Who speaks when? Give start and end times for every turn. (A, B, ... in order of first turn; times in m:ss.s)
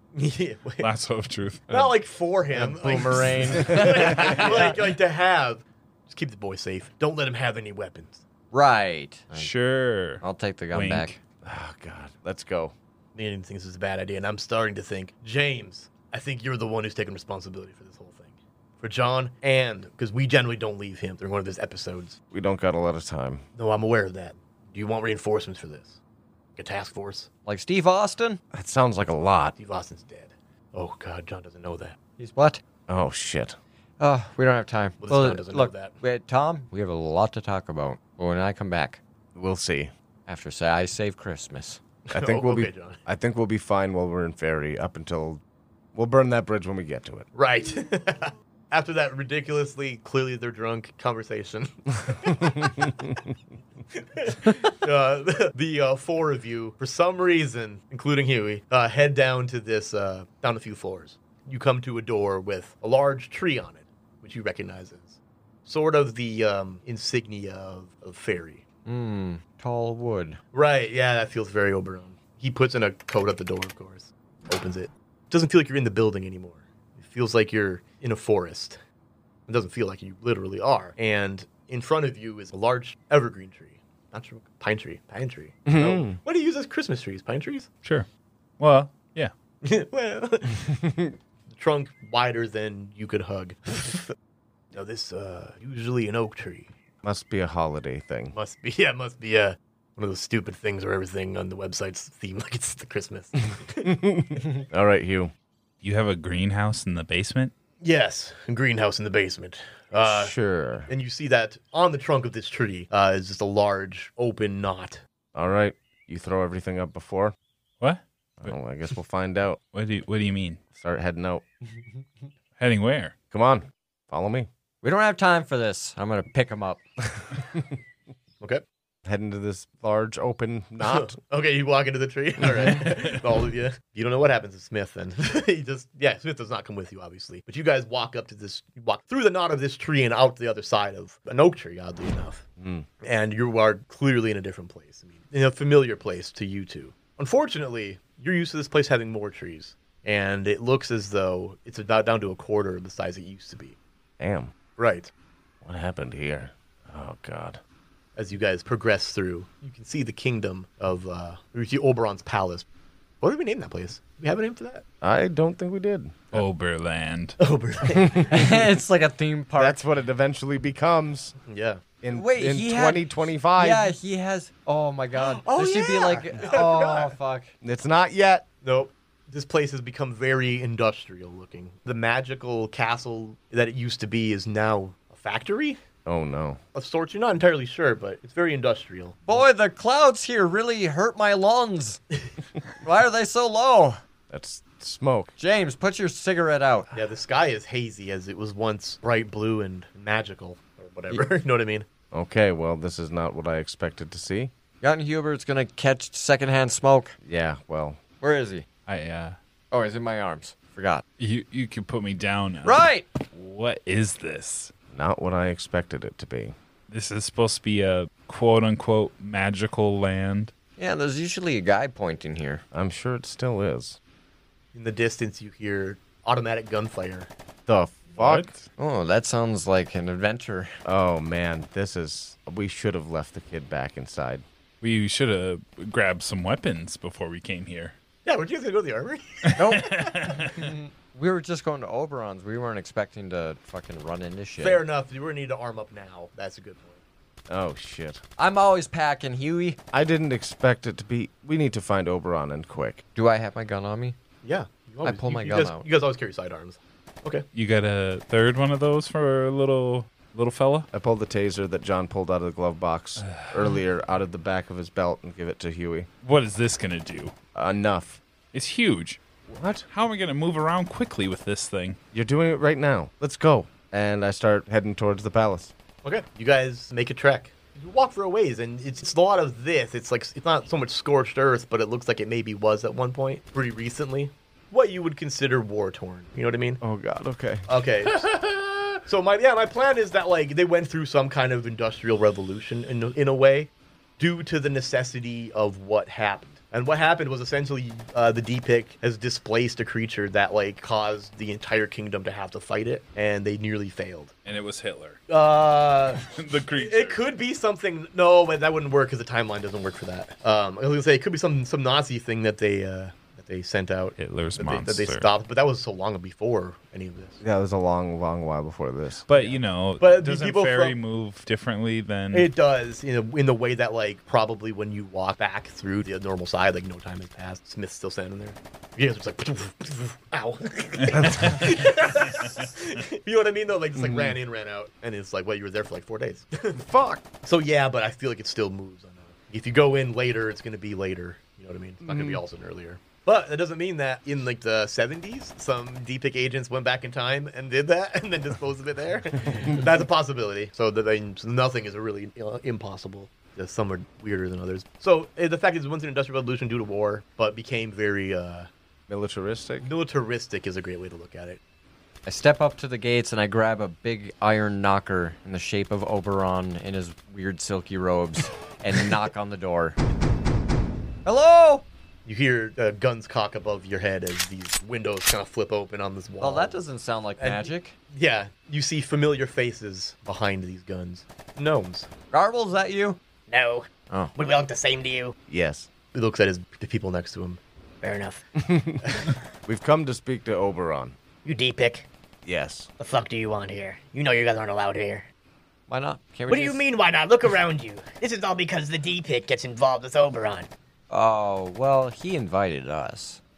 0:00.1-0:00.9 A
0:00.8-0:01.9 B
0:01.7-0:08.2 A
0:02.5-0:04.8 C
0:03.7-0:04.1 D
0:08.5-0:09.5 C
0:09.3-0:11.1 B
0:10.2-0:11.2 C
0:11.4-0:12.7 D
0:13.1-0:22.2 A
0:22.3-0:23.4 D
0:23.6-0:26.0 A
0:26.6-0:27.3 A
0:27.4-0:28.4 C
0:28.5-0:29.6 D
0:29.6-0:32.0 A
0:32.2-0:32.6 C
0:32.9-0:33.6 D
0:34.0-0:39.0 C
0:35.0-0:36.0 A
0:39.3-0:39.9 D
0:40.3-0:41.8 C
0:42.1-0:43.0 A
0:42.1-0:45.4 D
0:45.9-0:47.2 D
0:47.3-0:52.9 A
0:52.4-0:53.0 D
0:53.9-1:08.6 A
1:08.8-1:10.4 C
1:10.5-1:18.8 A
1:19.5-1:27.7 A
1:25.6-1:26.2 D
1:28.6-1:29.3 B
1:29.6-1:30.6 A
1:31.5-1:34.1 A
1:34.7-1:36.7 A
1:37.0-1:38.3 D
1:38.3-1:43.9 A
1:43.8-1:45.3 D
1:45.8-1:47.5 B
1:47.8-1:50.3 A
1:50.0-1:50.9 D
1:50.9-1:55.0 A
1:55.3-1:57.3 D
1:57.8-1:58.6 B
1:58.4-1:59.6 D
1:59.7-2:00.6 B
2:00.7-2:01.4 D
2:02.6-2:03.1 B
2:03.3-2:04.5 D
2:04.8-2:06.8 C
2:07.2-2:07.6 D
2:09.0-2:11.2 D
2:10.8-2:22.4 A
2:22.6-2:22.9 D
2:23.0-2:33.8 A
2:34.2-2:34.5 D
2:34.8-2:35.1 A
2:35.6-2:37.6 D
2:38.2-2:42.6 A
2:43.2-2:44.8 A
2:45.0-2:46.3 D
2:46.3-2:47.4 B
2:47.4-2:48.6 A
2:48.0-2:48.2 D
2:48.3-2:49.8 C
2:49.6-2:51.3 D
2:51.4-2:51.8 A
2:52.0-2:54.0 D
2:52.1-2:57.5 C
2:55.1-2:57.2 A
2:57.6-2:58.4 D
2:58.6-3:05.8 A
3:06.0-3:06.6 D
3:06.7-3:09.4 A
3:09.3-3:12.0 C
3:12.8-3:14.0 C
3:14.3-3:15.3 D
3:15.4-3:16.9 C
3:16.9-3:21.8 A
3:22.1-3:24.5 D
3:24.8-3:27.2 C
3:27.2-3:28.0 D
3:28.2-3:28.6 C
3:28.9-3:29.4 B
3:29.7-3:31.0 C
3:31.2-3:34.7 B
3:32.6-3:33.1 C
3:34.9-3:36.5 D
3:36.9-3:40.5 B
3:40.8-3:42.6 C
3:42.7-3:44.0 D
3:44.7-3:47.3 A
3:47.7-3:48.5 D
3:48.2-3:48.7 B
3:48.8-3:50.7 C
3:50.8-3:54.4 D
3:54.8-3:57.9 B
3:58.2-3:59.8 A
3:59.5-4:00.7 B
3:59.6-4:04.8 C
4:04.6-4:07.0 A
4:07.5-4:08.2 D
4:08.4-4:09.8 C
4:09.9-4:13.0 D
4:13.1-4:14.1 C
4:14.4-4:17.4 A
4:15.0-4:15.8 C
4:17.5-4:20.9 B
4:20.9-4:26.1 D
4:23.2-4:23.8 B
4:26.2-4:27.3 B
4:27.5-4:28.2 D
4:28.5-4:29.2 B
4:29.5-4:29.9 D
4:29.9-4:32.0 B
4:32.1-4:35.7 D
4:36.0-4:46.8 A
4:46.8-4:47.7 D
4:47.7-4:48.3 A
4:49.0-5:04.3 A
5:04.4-5:05.2 B
5:05.3-5:17.4 A
5:06.2-5:07.2 B
5:14.2-5:15.3 B
5:17.4-5:19.5 D
5:19.3-5:22.5 B
5:19.4-5:21.0 A
5:22.3-5:36.8 A
5:31.0-5:32.5 B
5:34.0-5:34.4 D
5:36.8-5:37.2 D
5:37.4-5:58.7 A
5:42.0-5:42.4 D
5:59.1-5:59.9 D
5:59.8-6:01.6 A
6:02.2-6:10.0 C
6:11.2-6:11.8 C
6:12.2-6:16.8 A
6:16.4-6:17.9 C
6:17.4-6:22.1 A
6:22.3-6:23.2 C
6:23.5-6:25.3 E
6:25.5-6:25.9 D
6:26.1-6:27.6 A
6:28.0-6:28.4 E
6:28.6-6:29.1 D
6:29.6-6:31.2 D
6:31.4-6:32.1 E
6:32.4-6:32.9 D
6:33.0-6:35.3 E
6:35.9-6:36.8 C
6:36.5-6:40.7 E
6:41.1-6:43.4 C